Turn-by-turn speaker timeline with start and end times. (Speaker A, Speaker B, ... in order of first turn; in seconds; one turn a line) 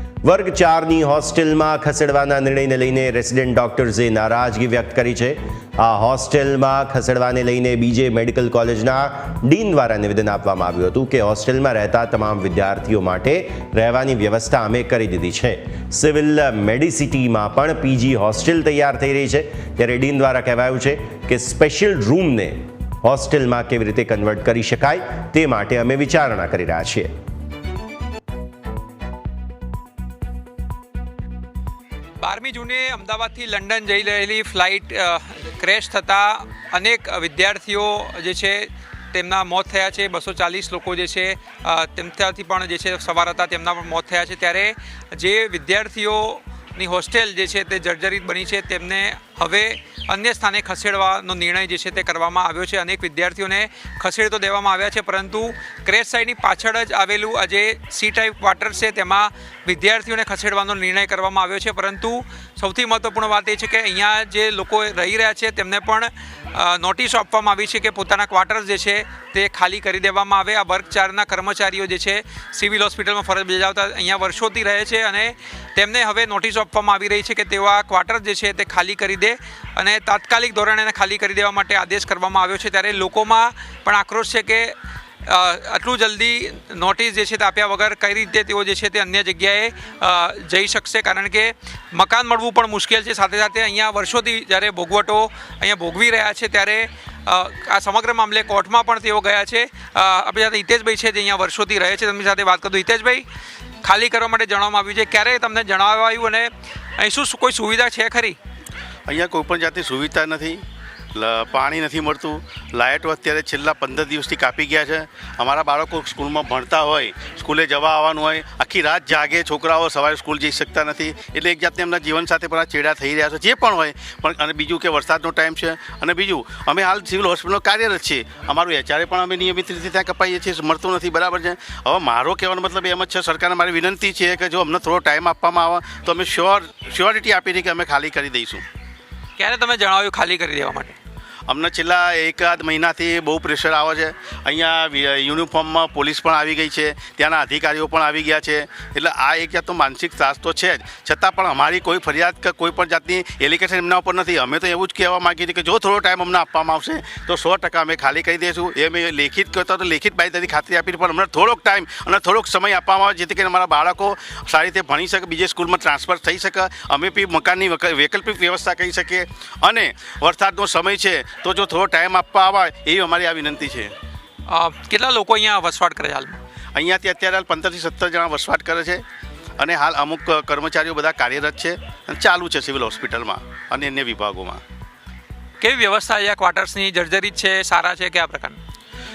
Speaker A: 0.2-27.1
Speaker B: 32.2-84.8
Speaker B: 85.3-103.2
Speaker B: 103.8-108.4
Speaker C: 109.1-110.6
Speaker C: 111.2-138.6
Speaker B: 139.4-141.0
Speaker C: 141.5-173.9
Speaker B: 174.5-176.4
Speaker C: 176.8-179.0
Speaker C: 179.6-184.6
Speaker B: 185.6-188.6